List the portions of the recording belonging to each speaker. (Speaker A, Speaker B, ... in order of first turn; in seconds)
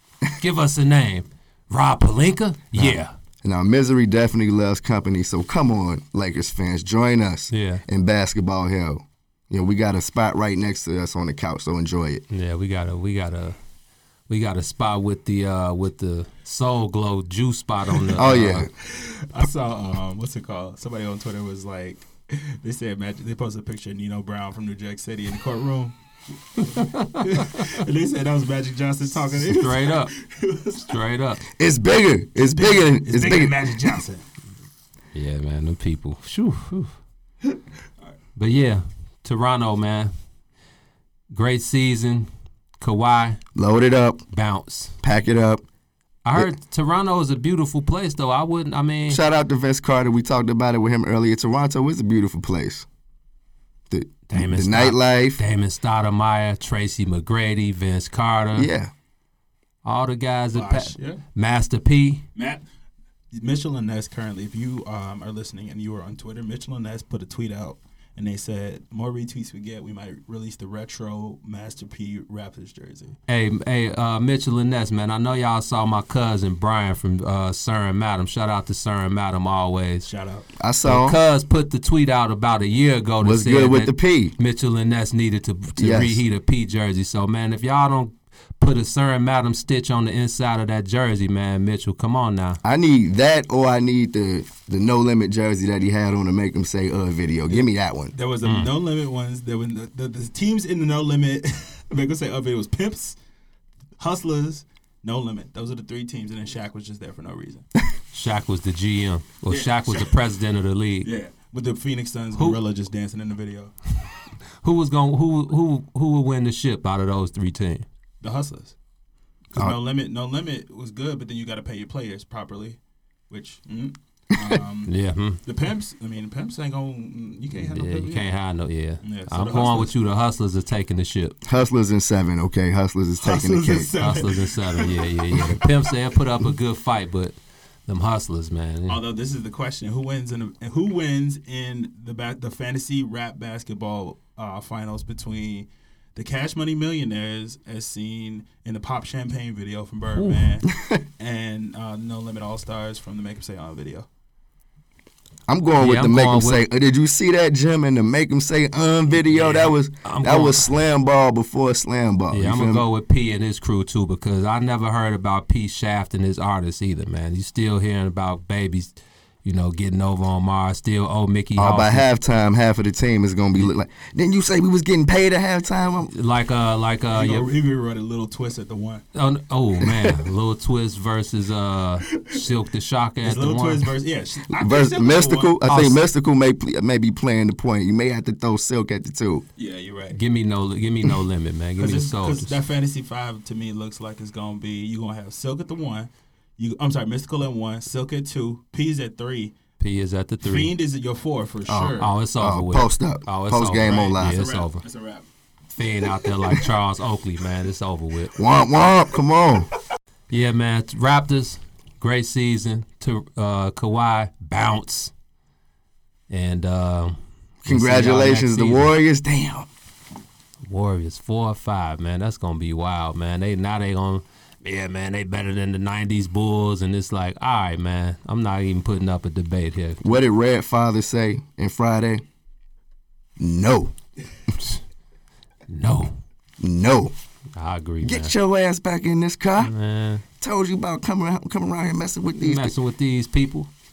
Speaker A: 0.4-3.1, 7.5-7.8, 12.3-13.6, 14.3-18.7, 26.7-27.7, 29.4-30.1, 30.8-31.4, 35.1-37.0, 38.4-40.1, 41.3-42.3, 42.8-43.4, 44.3-45.0, 46.2-49.2, 54.3-58.7, 59.9-62.2, 73.3-80.1, 80.8-92.6, 98.4-98.7, 108.1-111.1, 114.6-117.9, 124.9-125.4, 127.5-131.4, 134.0-137.4, 137.9-139.0, 150.2-150.5, 155.8-156.6, 159.2-160.7, 162.3-168.9, 169.4-172.1, 176.1-177.5, 179.2-183.9, 185.7-186.0, 190.1-192.6, 199.8-200.7, 202.0-204.8, 205.7-208.3, 210.3-215.1, 216.3-218.9, 220.7-230.0, 235.7-236.2, 237.6-238.3, 239.6-240.2, 242.4-243.7
Speaker B: 2.7-12.2, 18.2-18.7, 31.6-34.0, 43.5-44.2, 45.0-45.6, 49.1-52.9, 53.9-55.4, 58.5-58.9, 80.6-81.2, 83.2-84.3, 85.8-86.2, 92.6-98.1, 131.4-133.9, 155.5-162.8, 171.6-176.1, 179.8-180.2, 184.5-189.4, 201.7-204.4, 208.4-209.7, 217.6-219.7, 230.0-232.2, 233.4-233.9, 236.6-237.1, 238.0-239.7, 240.4-242.7
Speaker C: 18.8-25.9, 26.6-30.9, 32.4-34.2, 60.5-61.2, 62.4-62.6, 63.3-73.2, 80.1-80.5, 97.5-103.2, 104.0-107.7, 109.5-110.2, 111.0-113.7, 118.2-118.8, 119.5-122.8, 123.3-124.9, 125.4-128.3, 129.0-129.9, 133.2-135.4, 138.9-154.1, 177.1-179.0, 182.1-182.4, 183.2-185.6, 189.6-190.2, 191.8-199.6, 200.4-202.1, 203.8-205.3